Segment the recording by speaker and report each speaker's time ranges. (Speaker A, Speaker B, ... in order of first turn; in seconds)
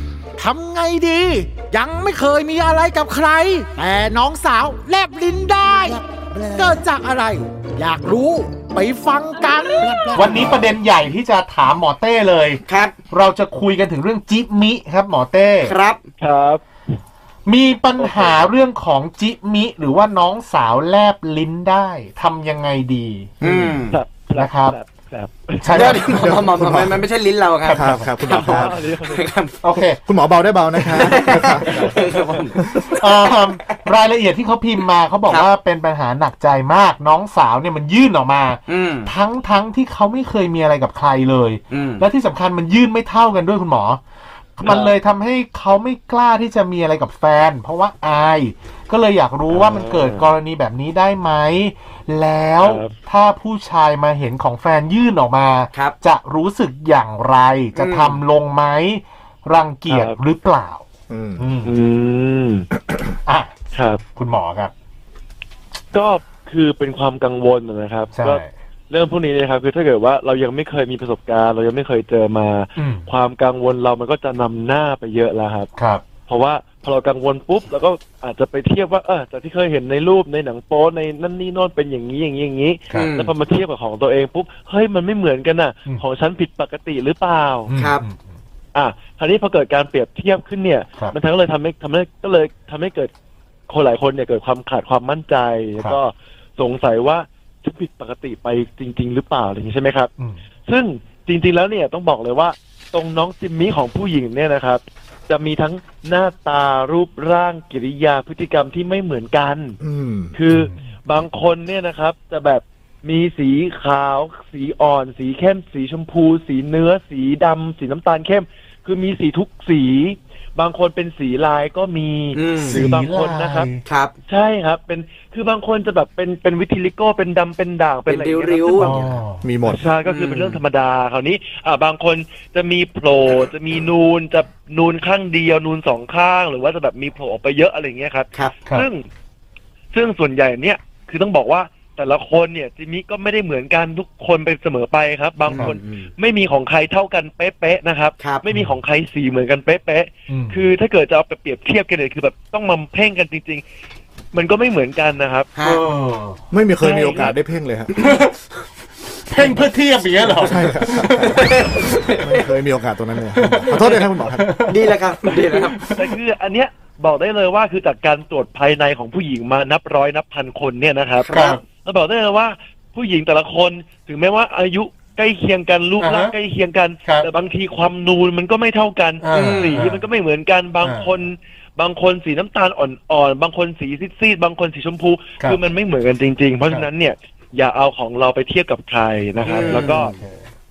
Speaker A: 0.4-10.6
Speaker B: 10.1-15.7, 17.4-23.3, 24.3-24.8, 25.6-26.6, 27.6-28.7, 29.6-30.0, 30.8-31.1, 32.7-44.0, 44.6-60.8, 61.4-61.7, 63.2-63.5, 64.1-64.7, 68.1-68.5, 72.8-73.0, 75.8-76.0, 87.7-88.2, 110.5-110.8, 122.6-123.8, 128.8-129.4, 148.5-148.8, 150.3-150.6, 155.6-156.4, 158.0-158.3, 159.3-161.6, 163.3-164.9, 165.6-166.1, 171.3-171.6, 176.0-176.3, 179.2-180.0, 180.8-181.1, 189.4-190.5
Speaker C: 12.7-12.9, 15.6-16.0, 23.4-24.0, 25.7-29.6, 30.9-33.3, 38.7-39.1, 41.7-42.0, 57.7-58.2, 82.9-83.3, 87.7-88.0, 122.3-122.8, 123.8-124.1, 128.1-129.0, 130.0-130.6, 145.4-146.1, 155.5-155.8, 161.2-162.3, 164.7-165.8, 171.2-171.6, 179.3-179.9, 189.4-190.2
Speaker D: 16.2-16.6, 18.0-18.4, 23.9-26.4, 28.4-29.3, 31.8-32.4, 49.5-50.3, 52.6-52.9, 59.9-60.2, 61.6-62.7, 63.7-64.0, 65.9-75.7, 76.3-87.7, 88.7-93.1, 93.7-100.1, 100.7-109.8, 110.3-123.7, 124.2-139.1, 139.9-153.6, 154.3-155.5, 156.8-157.3, 165.8-190.2
Speaker E: 23.4-23.8, 26.1-27.0, 27.7-28.8, 30.1-31.9, 32.6-32.8, 61.1-61.5, 109.8-110.3, 129.4-129.8, 156.5-158.0, 160.3-161.4, 162.1-164.5